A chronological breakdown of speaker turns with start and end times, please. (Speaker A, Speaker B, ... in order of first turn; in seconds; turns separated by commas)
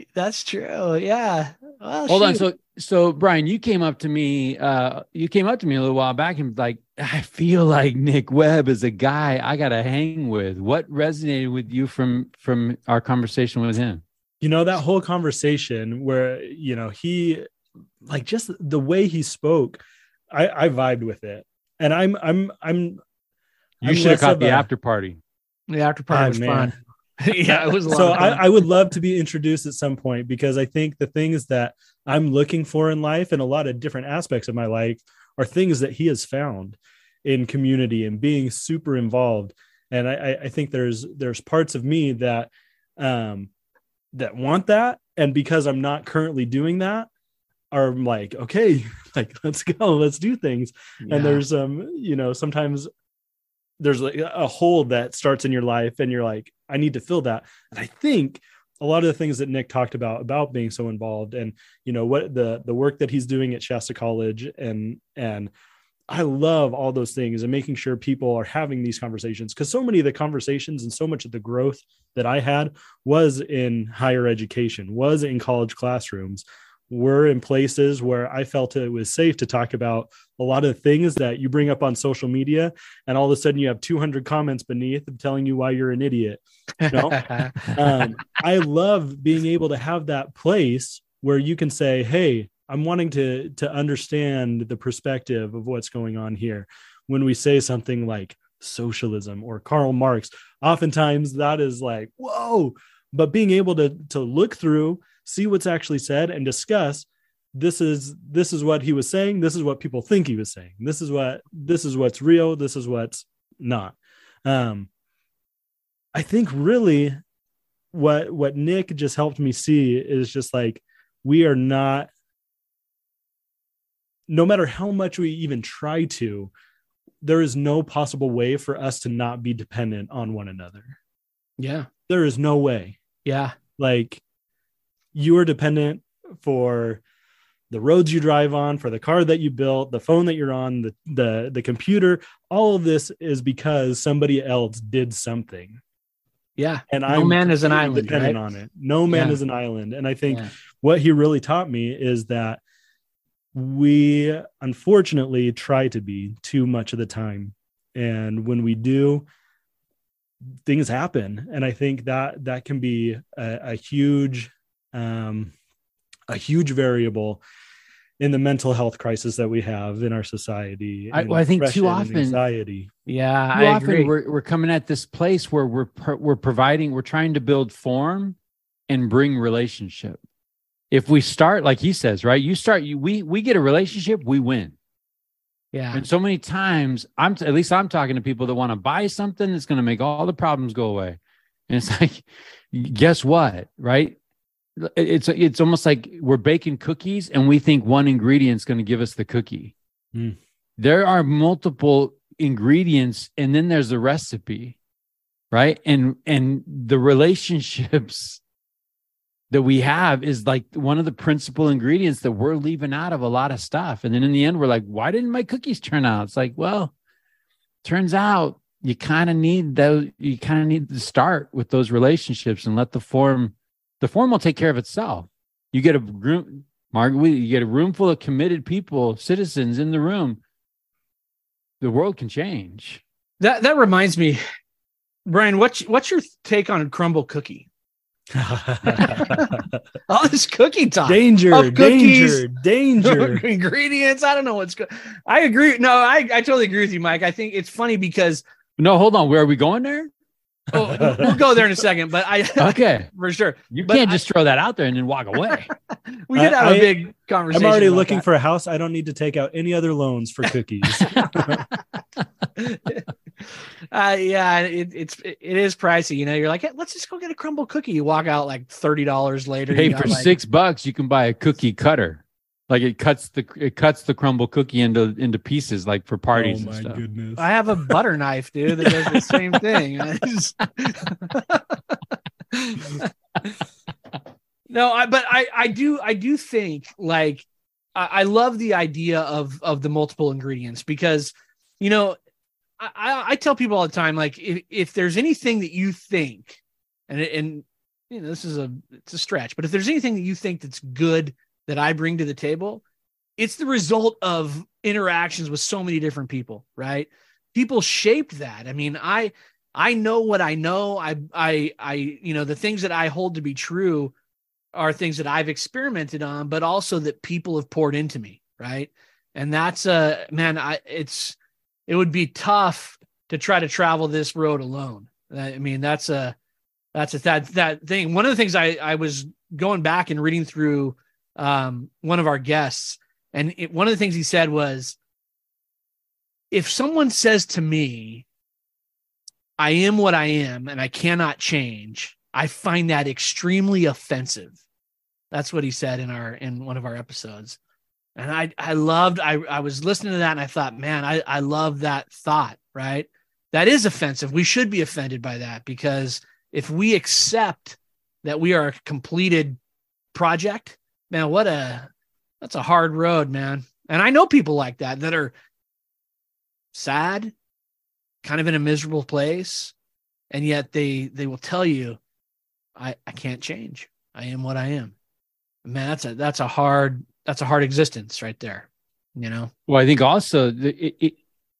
Speaker A: 0.1-2.4, Speaker B: 2.1-14.0, Speaker C: 14.4-17.5, Speaker C: 18.0-23.0, Speaker C: 23.8-24.7, Speaker B: 23.8-25.2, Speaker A: 25.7-28.4, Speaker C: 26.1-26.7, Speaker C: 27.5-43.5, Speaker C: 44.1-47.1, Speaker C: 47.7-52.9, Speaker A: 51.0-51.4, Speaker C: 53.8-65.5, Speaker C: 66.1-114.9, Speaker A: 86.8-88.1, Speaker C: 116.1-117.2, Speaker C: 117.9-122.1, Speaker C: 124.3-126.5, Speaker C: 127.2-130.9, Speaker A: 131.6-131.9, Speaker C: 132.1-133.0, Speaker A: 133.2-133.5, Speaker C: 133.8-134.2, Speaker C: 135.1-137.0, Speaker C: 137.7-145.8, Speaker A: 146.6-148.4, Speaker C: 146.9-152.6, Speaker A: 149.1-149.4, Speaker C: 153.5-159.2, Speaker C: 160.7-165.5, Speaker C: 166.3-167.4, Speaker C: 168.2-172.9, Speaker B: 171.1-172.4, Speaker A: 173.1-174.1, Speaker B: 173.5-178.4, Speaker B: 178.9-180.2, Speaker B: 180.9-184.7, Speaker A: 185.7-186.0, Speaker B: 185.9-191.2, Speaker B: 191.7-194.2, Speaker B: 194.8-199.7, Speaker B: 200.8-204.8, Speaker B: 205.5-208.4, Speaker B: 209.5-216.9, Speaker B: 217.8-230.4, Speaker B: 231.8-233.0, Speaker A: 233.4-234.4, Speaker A: 235.2-237.7, Speaker C: 238.3-239.8, Speaker A: 238.9-242.4, Speaker C: 241.1-243.4, Speaker A: 243.0-248.4, Speaker B: 248.8-250.1, Speaker A: 250.7-254.2, Speaker C: 250.8-251.4, Speaker B: 252.6-253.1, Speaker B: 253.7-255.7, Speaker A: 255.5-258.2, Speaker C: 256.3-261.6, Speaker A: 261.1-261.8, Speaker A: 262.6-263.0, Speaker A: 263.9-270.3, Speaker B: 269.7-277.0, Speaker C: 276.3-277.5, Speaker A: 277.4-282.0, Speaker A: 282.5-283.6, Speaker A: 284.7-292.2, Speaker A: 292.8-302.8, Speaker A: 303.4-314.1, Speaker A: 314.7-326.4, Speaker A: 326.9-335.0, Speaker A: 336.5-338.2, Speaker A: 339.6-344.6, Speaker A: 345.3-347.6, Speaker A: 348.1-359.6, Speaker A: 360.1-361.9, Speaker A: 362.4-365.3, Speaker A: 366.7-367.3, Speaker A: 368.2-369.7, Speaker A: 370.3-372.0, Speaker A: 372.8-374.9, Speaker A: 375.6-379.5, Speaker B: 379.7-381.2